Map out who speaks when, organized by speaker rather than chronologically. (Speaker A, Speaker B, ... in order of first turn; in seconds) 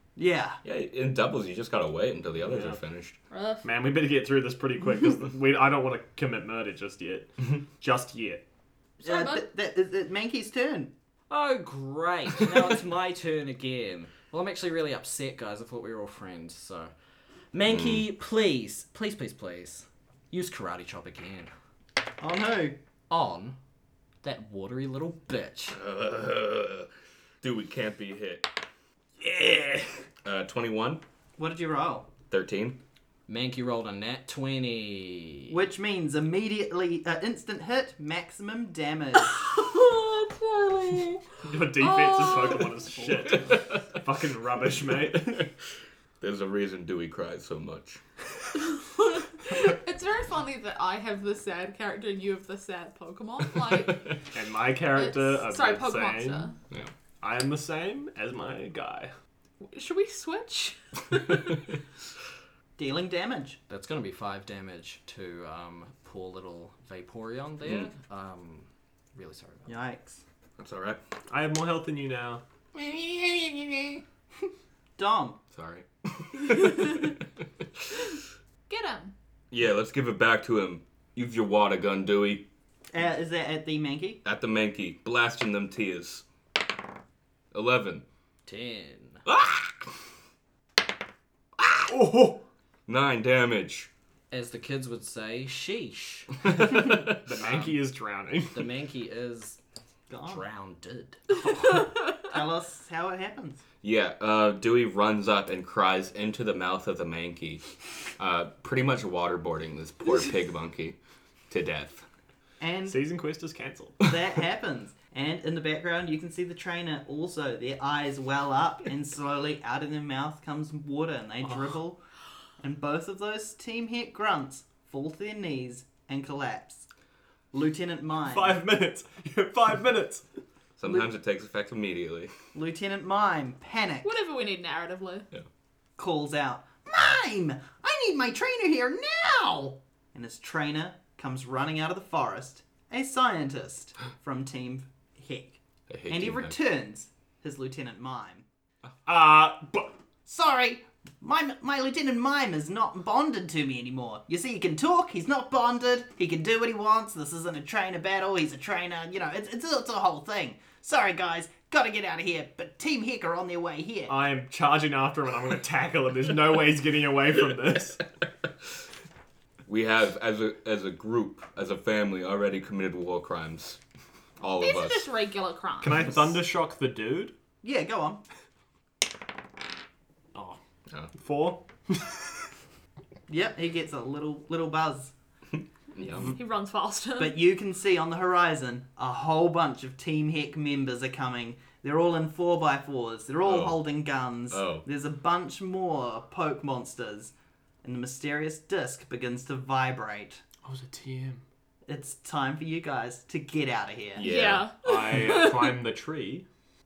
Speaker A: 0.2-0.6, 9.0-10.9, 22.2-22.8, 31.4-32.1, 35.5-39.4, 62.8-63.6, 69.7-70.2, 75.0-75.4, 82.9-84.2, 100.1-100.4, 102.2-103.6, 112.6-113.0, 114.0-122.0, 122.6-126.9, 127.5-128.6, 132.5-134.2, 136.0-148.4, 150.3-164.2, 177.6-178.2, 183.3-185.1, 187.2-197.3, 197.8-200.4, 201.9-204.3
Speaker B: 0.6-3.1, 17.6-18.1, 25.7-26.9, 27.4-28.5, 30.2-31.0, 32.3-32.8, 46.2-48.0, 67.6-67.9, 70.6-71.0, 75.5-77.2, 79.5-82.5, 84.2-86.2, 87.5-88.0, 89.3-89.7, 91.6-91.9, 92.9-93.9, 103.8-107.7, 108.2-111.0, 111.5-112.0, 130.8-132.3, 145.9-146.6, 169.7-173.8, 174.4-175.1, 185.9-186.4, 193.4-193.8, 194.5-194.8, 204.2-204.7
Speaker C: 2.4-2.8, 3.6-8.4, 41.4-45.5, 54.3-56.5, 57.2-59.1, 71.3-72.4, 91.9-92.4, 96.6-98.7, 112.9-114.1, 128.2-130.3, 149.1-150.0, 164.1-168.0, 175.8-177.3, 181.1-182.4, 200.6-201.4, 204.8-206.5
Speaker D: 3.3-3.7, 9.0-9.5, 39.2-42.8, 48.7-54.1, 55.0-56.6, 59.6-61.4, 78.7-79.1, 134.0-135.3, 174.6-176.2, 186.3-187.4, 204.2-205.8
Speaker E: 11.3-16.9, 17.5-21.5, 23.1-23.6, 24.2-25.8, 33.3-35.6, 63.7-69.7, 88.5-89.2, 94.3-96.5, 97.4-97.8, 98.5-99.6, 100.3-101.5